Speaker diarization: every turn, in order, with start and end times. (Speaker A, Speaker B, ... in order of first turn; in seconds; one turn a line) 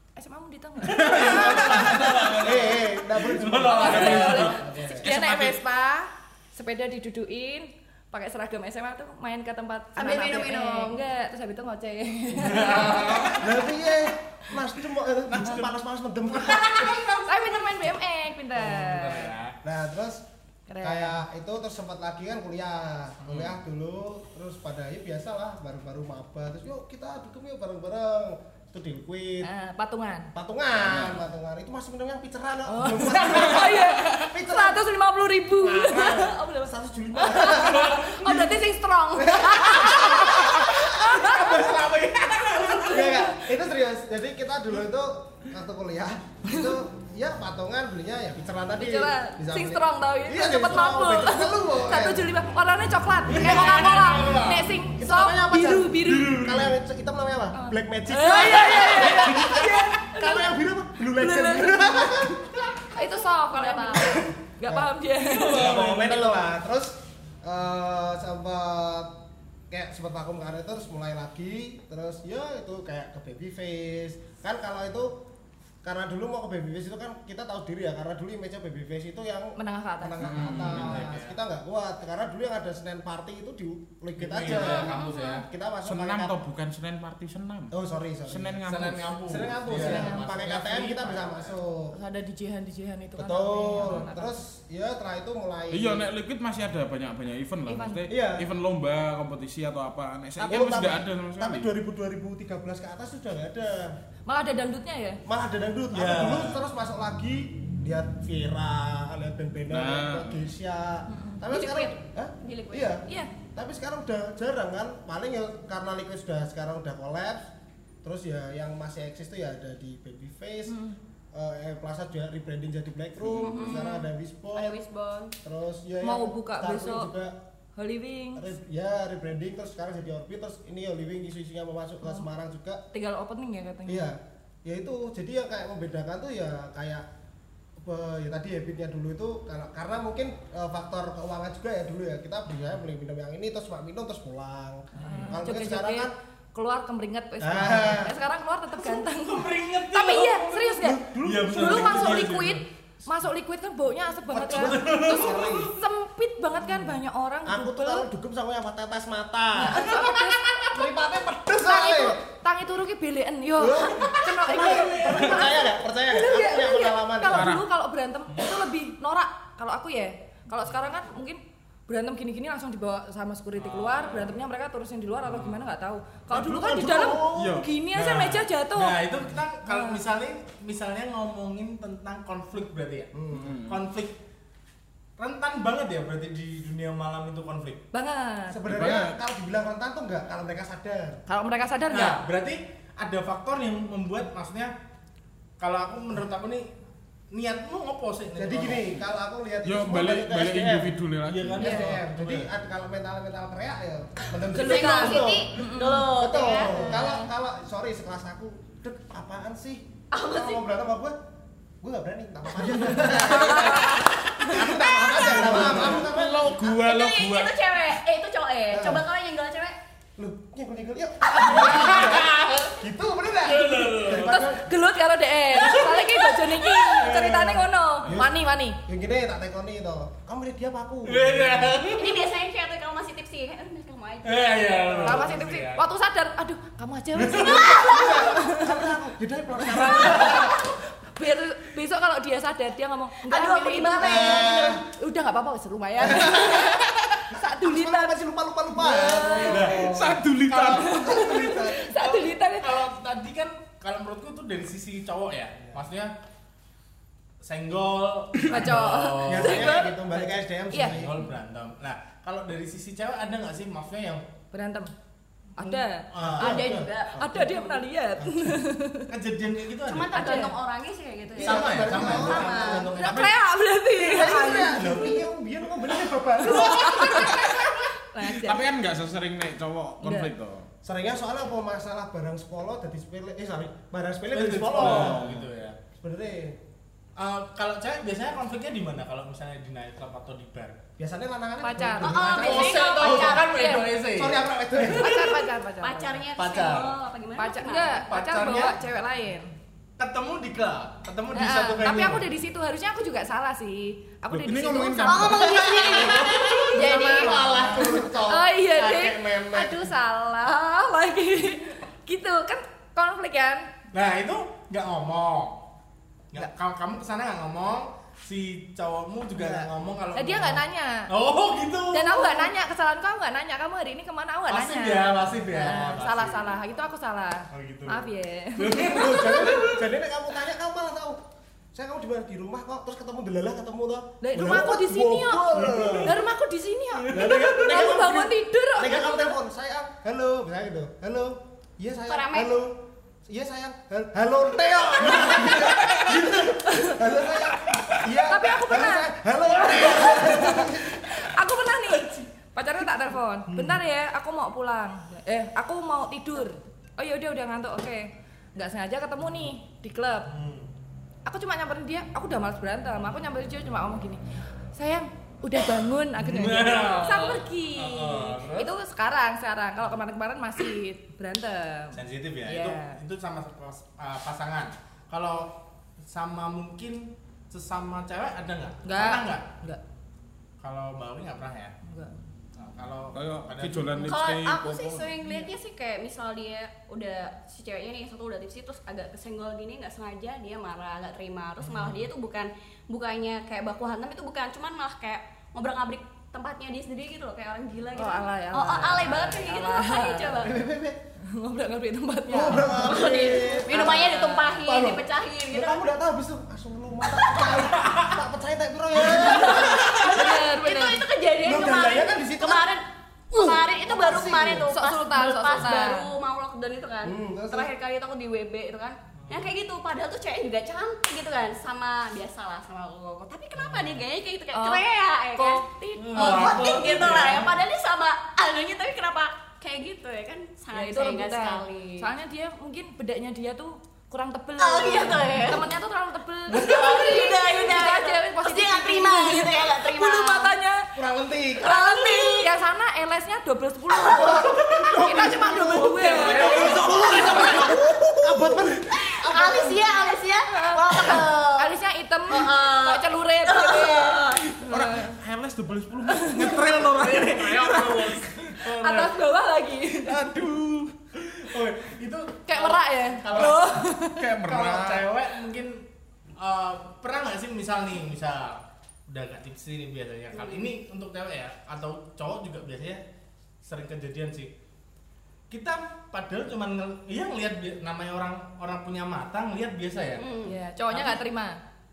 Speaker A: 0.2-2.1
Speaker B: 0.8-2.7
Speaker C: 0.9-4.6
Speaker D: 1.2-5.0
Speaker A: 3.7-13.5
Speaker B: 3.8-5.6
Speaker E: 10.0-11.0
Speaker C: 12.4-13.5
Speaker D: 13.4-17.1
Speaker C: 15.3-15.7
Speaker C: 16.4-17.2
Speaker A: 17.3-19.3
Speaker C: 18.6-19.6
Speaker D: 19.6-20.2
Speaker A: 20.7-21.2
Speaker D: 20.8-29.5
Speaker C: 23.2-23.6
Speaker A: 29.4-30.3
Speaker D: 30.4-34.8
Speaker A: 32.7-41.8
Speaker D: 35.6-38.1
Speaker C: 37.6-38.0
Speaker E: 38.0-40.1
Speaker D: 39.2-41.4
Speaker C: 41.1-43.3
Speaker A: 42.5-43.2
Speaker D: 42.9-52.3
Speaker A: 48.8-56.4
Speaker C: 53.3-54.8
Speaker D: 55.0-62.5
Speaker C: 56.0-56.8
Speaker A: 57.5-62.3
Speaker C: 58.6-59.9
Speaker E: 62.9-64.3
Speaker A: 63.0-65.7
Speaker C: 65.2-66.5
Speaker D: 65.5-69.1
Speaker D: 69.7-75.1
Speaker D: 75.8-86.4
Speaker A: 79.6-80.7
Speaker B: 80.2-81.0
Speaker C: 80.5-81.4
Speaker C: 84.2-85.5
Speaker A: 84.6-85.5
Speaker B: 85.8-87.8
Speaker D: 87.7-88.6
Speaker B: 88.3-89.5
Speaker C: 88.7-91.5
Speaker D: 89.3-91.9
Speaker A: 89.8-90.3
Speaker A: 91.9-94.4
Speaker D: 93.2-96.1
Speaker B: 95.7-101.7
Speaker A: 97.7-98.0
Speaker D: 98.1-98.5
Speaker D: 100.4-103.9
Speaker A: 104.3-105.2
Speaker D: 105.3-113.0
Speaker C: 105.9-106.6
Speaker B: 109.7-110.5
Speaker A: 111.1-112.0
Speaker E: 112.4-113.0
Speaker D: 113.5-117.5
Speaker D: 118.0-120.8
Speaker A: 120.7-121.0
Speaker D: 121.3-124.8
Speaker E: 123.3-125.3
Speaker A: 123.5-123.9
Speaker D: 125.4-127.3
Speaker A: 126.0-127.1
Speaker A: 127.8-128.4
Speaker D: 128.4-132.8
Speaker A: 132.9-134.1
Speaker D: 133.9-137.0
Speaker D: 137.8-146.1
Speaker C: 145.0-145.4
Speaker A: 145.0-158.1
Speaker D: 147.4-148.2
Speaker C: 148.8-152.6
Speaker D: 150.6-152.3
Speaker D: 154.3-155.7
Speaker C: 154.5-155.7
Speaker D: 157.4-160.1
Speaker C: 159.6-160.3
Speaker A: 159.6-160.7
Speaker D: 160.7-162.2
Speaker A: 161.6-179.1
Speaker D: 163.6-167.6
Speaker C: 164.0-165.5
Speaker B: 167.3-167.7
Speaker C: 168.3-168.6
Speaker C: 173.6-174.4
Speaker C: 175.2-175.6
Speaker D: 176.3-177.7
Speaker B: 177.3-177.7
Speaker C: 177.9-184.2
Speaker A: 179.6-180.0
Speaker D: 183.1-183.5
Speaker B: 183.3-183.8
Speaker C: 185.2-187.8
Speaker A: 187.9-188.6
Speaker D: 188.5-191.2
Speaker B: 188.6-189.2
Speaker A: 191.3-192.2
Speaker C: 191.9-194.7
Speaker C: 195.6-196.7
Speaker C: 197.3-198.9
Speaker D: 198.3-200.9
Speaker B: 199.6-201.8
Speaker C: 201.2-202.5
Speaker D: 201.6-211.2
Speaker A: 201.6-201.9
Speaker E: 204.5-207.2
Speaker A: 204.5-207.3
Speaker E: 210.1-210.6
Speaker D: 211.8-216.6
Speaker A: 212.8-214.8
Speaker B: 213.3-213.9
Speaker B: 214.8-218.0
Speaker C: 215.2-216.1
Speaker E: 216.6-219.8
Speaker D: 218.7-219.1
Speaker D: 220.2-224.7
Speaker C: 221.4-222.8
Speaker C: 223.4-224.4
Speaker A: 224.1-228.8
Speaker C: 225.5-227.5
Speaker D: 227.1-228.3
Speaker D: 228.9-231.9
Speaker C: 231.1-232.2
Speaker E: 231.9-234.8
Speaker C: 234.2-235.8
Speaker A: 235.0-238.9
Speaker C: 237.2-237.7
Speaker D: 237.2-240.5
Speaker E: 237.5-238.1
Speaker A: 239.6-248.2
Speaker C: 240.0-240.5
Speaker E: 243.3-244.8
Speaker D: 244.0-244.8
Speaker D: 246.0-246.8
Speaker D: 247.6-250.2
Speaker A: 248.8-249.7
Speaker C: 249.4-249.8
Speaker B: 249.7-251.0
Speaker C: 250.4-256.1
Speaker D: 250.8-251.9
Speaker A: 250.8-252.8
Speaker C: 257.4-259.8
Speaker A: 258.5-261.0
Speaker D: 259.3-261.2
Speaker C: 260.9-264.2
Speaker A: 264.5-264.9
Speaker A: 265.6-269.1
Speaker C: 266.1-266.8
Speaker D: 266.2-267.6
Speaker E: 266.4-267.8
Speaker D: 268.2-268.6
Speaker C: 269.1-270.5
Speaker E: 269.9-272.9
Speaker A: 270.1-270.6
Speaker D: 271.4-273.0
Speaker C: 271.4-273.3
Speaker A: 272.3-275.2
Speaker B: 273.0-273.3
Speaker D: 274.0-277.6
Speaker C: 274.7-275.2
Speaker A: 276.4-278.8
Speaker C: 276.5-277.2
Speaker B: 278.2-280.7
Speaker A: 280.0-280.3
Speaker D: 280.8-285.3
Speaker C: 284.3-285.8
Speaker B: 284.8-285.4
Speaker D: 286.0-286.6
Speaker C: 287.2-290.8
Speaker D: 291.0-293.4
Speaker A: 291.6-293.9
Speaker E: 292.0-293.5
Speaker C: 292.1-295.2
Speaker D: 294.1-295.4
Speaker A: 295.0-296.2
Speaker E: 295.8-298.1
Speaker C: 296.4-296.9
Speaker A: 297.4-299.5
Speaker C: 298.0-298.8
Speaker C: 300.0-302.3
Speaker A: 301.3-306.1
Speaker B: 304.3-305.6
Speaker E: 305.0-307.6
Speaker C: 305.3-308.1
Speaker D: 305.7-309.9
Speaker A: 306.7-307.3
Speaker A: 308.2-313.7
Speaker C: 313.9-315.7
Speaker C: 316.3-322.5
Speaker D: 319.4-319.7
Speaker A: 320.1-321.1
Speaker A: 321.9-329.4
Speaker C: 324.5-326.6
Speaker C: 327.5-329.9
Speaker D: 328.9-331.2
Speaker D: 331.7-336.1
Speaker A: 334.2-339.4
Speaker C: 335.6-336.1
Speaker C: 337.0-337.6
Speaker D: 337.1-351.1
Speaker E: 342.1-342.5
Speaker C: 345.1-346.6
Speaker A: 346.6-347.0
Speaker A: 348.3-360.3
Speaker C: 353.5-353.8
Speaker C: 360.3-360.7
Speaker A: 361.3-364.2
Speaker A: 364.8-373.0
Speaker C: 366.2-368.7
Speaker C: 371.9-375.5
Speaker C: 376.1-379.5
Speaker A: 378.8-379.8
Speaker C: 380.6-381.7
Speaker A: 381.9-382.2
Speaker C: 382.6-384.1
Speaker B: 383.1-385.1
Speaker E: 384.0-400.6
Speaker C: 391.6-392.1
Speaker A: 397.9-400.5
Speaker D: 400.4-401.0
Speaker A: 401.3-404.6
Speaker D: 402.3-410.1
Speaker E: 402.5-405.8
Speaker E: 407.2-407.6
Speaker C: 407.6-408.1
Speaker C: 409.0-410.2
Speaker A: 409.2-411.0
Speaker E: 409.5-432.1
Speaker D: 411.4-412.8
Speaker D: 413.4-414.7
Speaker A: 414.7-416.1
Speaker D: 417.1-417.7
Speaker C: 419.2-419.5
Speaker D: 423.6-424.0
Speaker A: 424.5-424.9
Speaker A: 425.4-426.6
Speaker C: 426.0-427.6
Speaker A: 430.7-440.9
Speaker E: 434.6-435.7
Speaker E: 436.5-440.5
Speaker D: 441.0-441.7
Speaker A: 441.6-447.9
Speaker E: 441.6-442.5
Speaker E: 443.9-444.4
Speaker D: 444.0-446.0
Speaker C: 444.3-447.8
Speaker E: 445.4-447.8
Speaker D: 446.5-450.1
Speaker E: 448.9-451.8
Speaker A: 450.5-455.2
Speaker E: 452.3-454.4
Speaker B: 454.4-458.1
Speaker A: 456.1-456.9
Speaker C: 456.9-459.2
Speaker A: 458.7-460.3
Speaker B: 460.0-461.0
Speaker C: 461.2-463.9
Speaker A: 462.5-464.2
Speaker B: 463.3-465.1
Speaker C: 464.4-465.9
Speaker C: 466.4-473.0
Speaker E: 470.3-470.7
Speaker C: 473.6-474.5
Speaker C: 475.5-481.2
Speaker E: 480.2-480.6
Speaker A: 480.4-481.6